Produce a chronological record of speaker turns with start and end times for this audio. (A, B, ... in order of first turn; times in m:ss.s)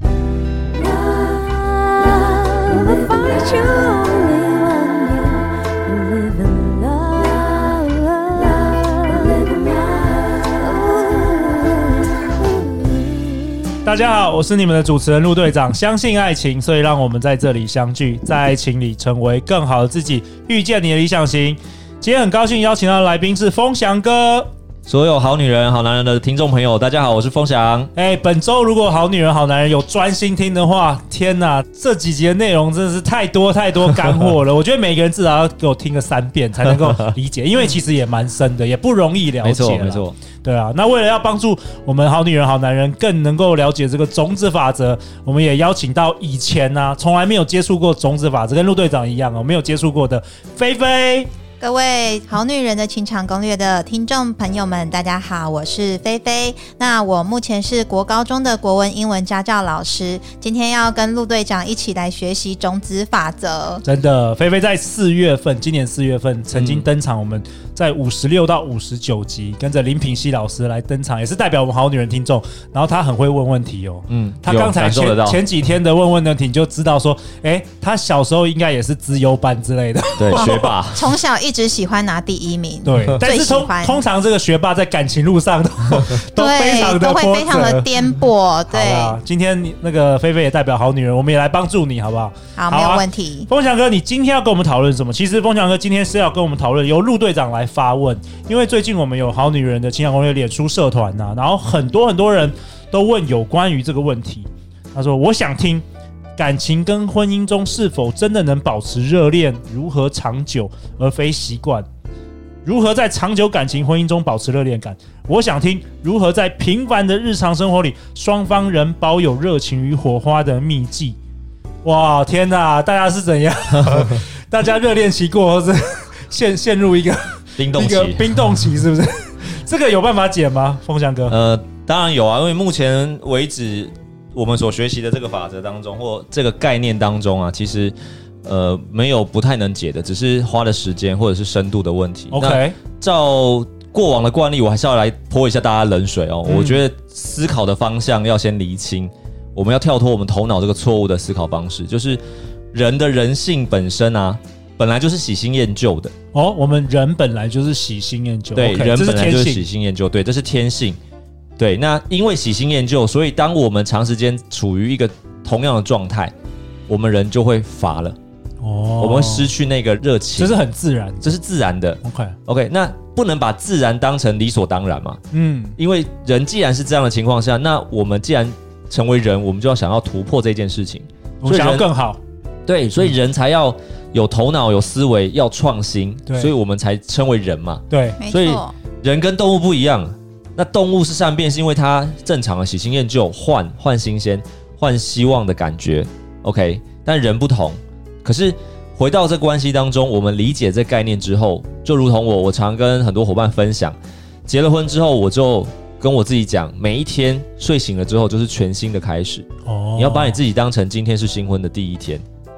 0:02.8-0:04.5 A
0:03.3-0:05.1 B
0:06.2-0:07.3 A
0:06.7-0:07.1 B
0:09.2-0:09.6 A
0:13.8-0:24.5 C
0:24.9-0:27.9 D
0:28.0-0:51.3 C
0:36.7-0:37.1 D
0:39.4-0:40.2 D
0:51.6-1:03.8 B
1:03.8-1:20.7 C
1:06.5-1:06.9 D
1:14.1-1:15.4 D
1:20.2-1:21.2 D
1:20.3-1:24.0 B
1:22.8-1:28.0 C
1:26.4-1:29.2 B
1:28.7-1:45.8 C
1:32.6-1:33.5 B
1:46.4-1:51.9 C
1:52.6-2:01.2 C
2:01.8-2:11.4 C
2:07.6-2:08.3 D
2:11.3-2:32.2 D
2:22.3-2:22.8 C
2:26.4-2:26.8 C
2:32.7-2:36.1 D
2:36.3-2:39.6 C
2:38.6-2:41.0 D
2:41.6-2:46.3 D
2:46.9-2:48.2 D
2:48.6-2:49.5 C
2:49.0-2:50.6 D
2:50.4-2:51.4 C
2:51.2-2:55.2 D
2:52.0-2:52.4 C
2:55.3-2:55.8 C
2:55.8-3:01.9 D
3:01.4-3:02.2 C
3:02.7-3:32.2 D
3:06.3-3:06.5 C
3:07.9-3:08.2 C
3:08.2-3:08.7 B
3:29.7-3:30.4 C